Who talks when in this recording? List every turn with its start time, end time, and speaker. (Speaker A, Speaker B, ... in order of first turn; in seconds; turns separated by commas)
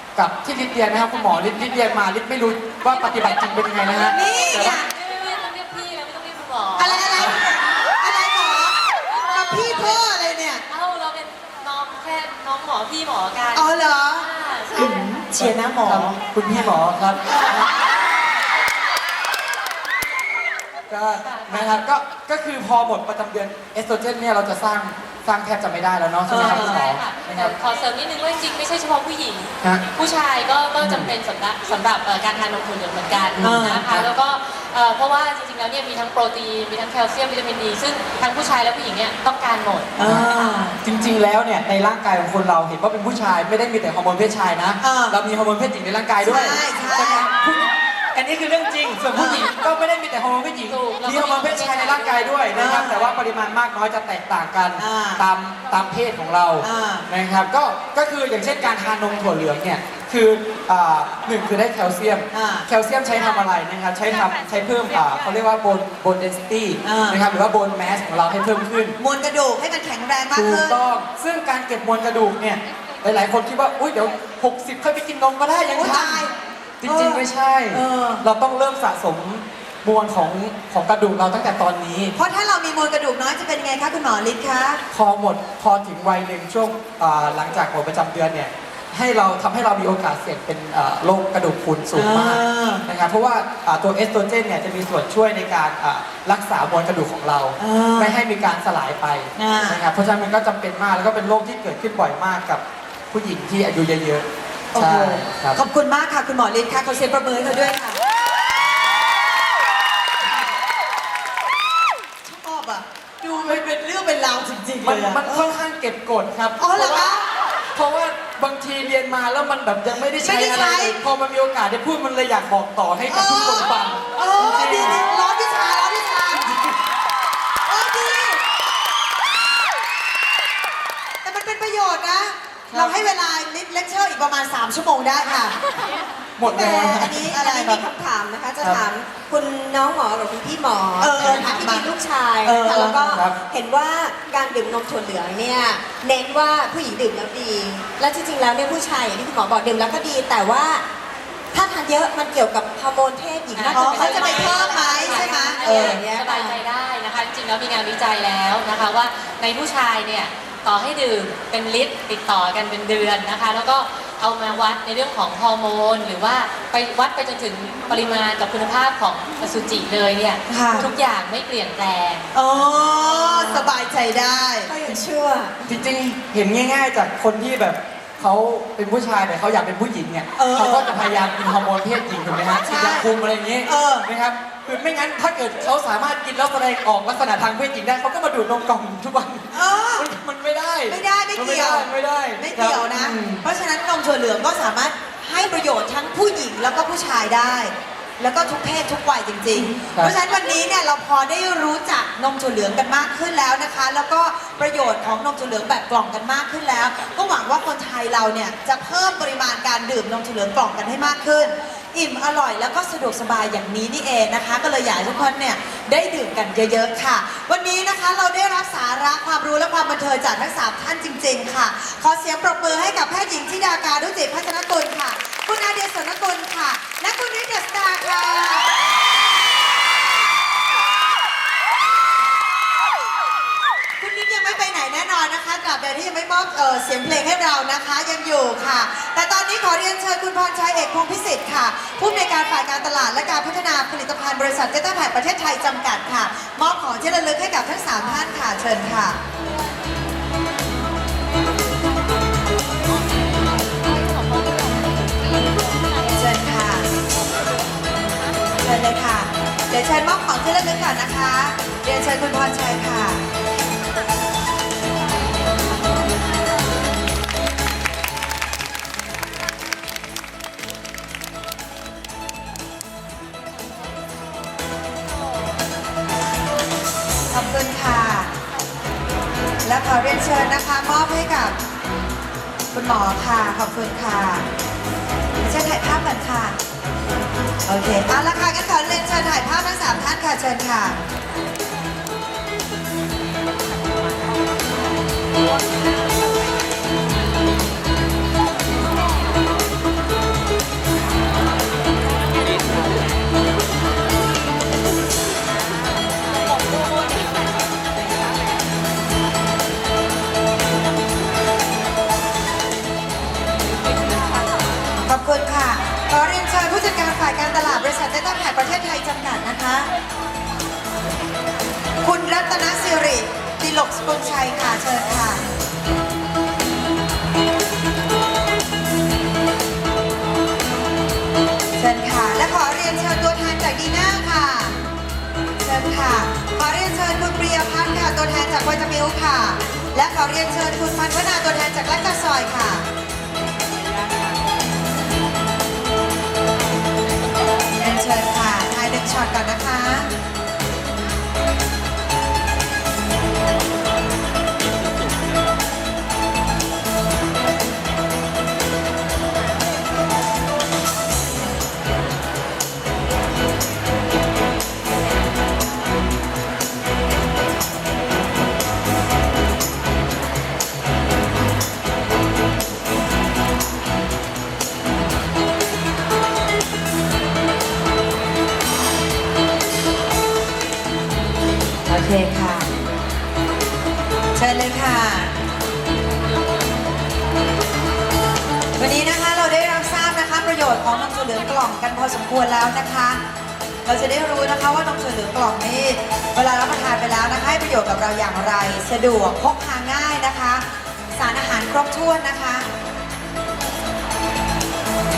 Speaker A: 0.2-4.8, Speaker B: 2.9-7.4, Speaker C: 4.0-4.9, Speaker C: 6.8-10.6, Speaker B: 9.1-10.1, Speaker B: 10.7-15.1, Speaker C: 13.6-17.7, Speaker A: 15.4-17.7, Speaker A: 20.9-27.5, Speaker B: 21.2-21.8, Speaker C: 26.3-26.8, Speaker B: 26.3-40.6, Speaker A: 30.8-31.1, Speaker A: 33.4-34.1, Speaker C: 33.4-33.8, Speaker C: 40.0-40.8, Speaker A: 40.0-69.0, Speaker C: 44.8-45.2, Speaker C: 46.2-47.3, Speaker C: 49.1-49.5, Speaker B: 50.7-52.4, Speaker C: 52.5-53.0, Speaker C: 54.8-55.2, Speaker C: 56.6-57.1, Speaker C: 62.3-62.7, Speaker C: 66.8-67.2, Speaker C: 69.0-70.8, Speaker A: 70.3-76.3, Speaker C: 75.7-78.2, Speaker A: 76.8-82.2, Speaker C: 82.2-84.8, Speaker A: 84.9-105.6, Speaker C: 91.9-92.8, Speaker C: 97.6-98.2, Speaker C: 99.4-99.8, Speaker C: 104.7-108.0, Speaker C: 112.2-115.6, Speaker A: 114.8-117.2, Speaker C: 116.6-117.3, Speaker A: 117.7-125.1, Speaker C: 120.0-121.0, Speaker C: 123.1-126.5, Speaker A: 126.3-126.8, Speaker C: 127.7-128.4, Speaker C: 131.2-135.6, Speaker A: 132.7-133.0, Speaker A: 136.4-137.2, Speaker D: 136.4-150.8, Speaker C: 136.5-137.8, Speaker C: 141.0-141.9, Speaker A: 142.4-143.4, Speaker D: 151.5-156.6, Speaker B: 153.5-172.7, Speaker C: 153.7-156.0, Speaker C: 170.5-170.9, Speaker C: 172.3-174.7, Speaker D: 172.8-173.7, Speaker D: 174.7-175.6, Speaker A: 175.7-193.4, Speaker C: 180.4-181.0, Speaker C: 182.5-183.1, Speaker C: 183.6-184.1, Speaker C: 189.5-190.1, Speaker C: 190.9-228.7, Speaker A: 199.5-200.1, Speaker C: 234.0-249.2, Speaker C: 256.1-256.9, Speaker C: 258.6-263.2, Speaker C: 277.3-278.3, Speaker C: 279.6-281.6, Speaker C: 282.7-284.5, Speaker C: 285.4-286.6, Speaker C: 287.7-291.0, Speaker C: 315.1-319.9, Speaker C: 322.0-325.4, Speaker C: 331.8-334.8, Speaker C: 335.6-342.9, Speaker C: 347.8-350.1, Speaker C: 381.9-382.7, Speaker C: 384.4-385.3, Speaker C: 388.8-393.2, Speaker C: 393.9-402.7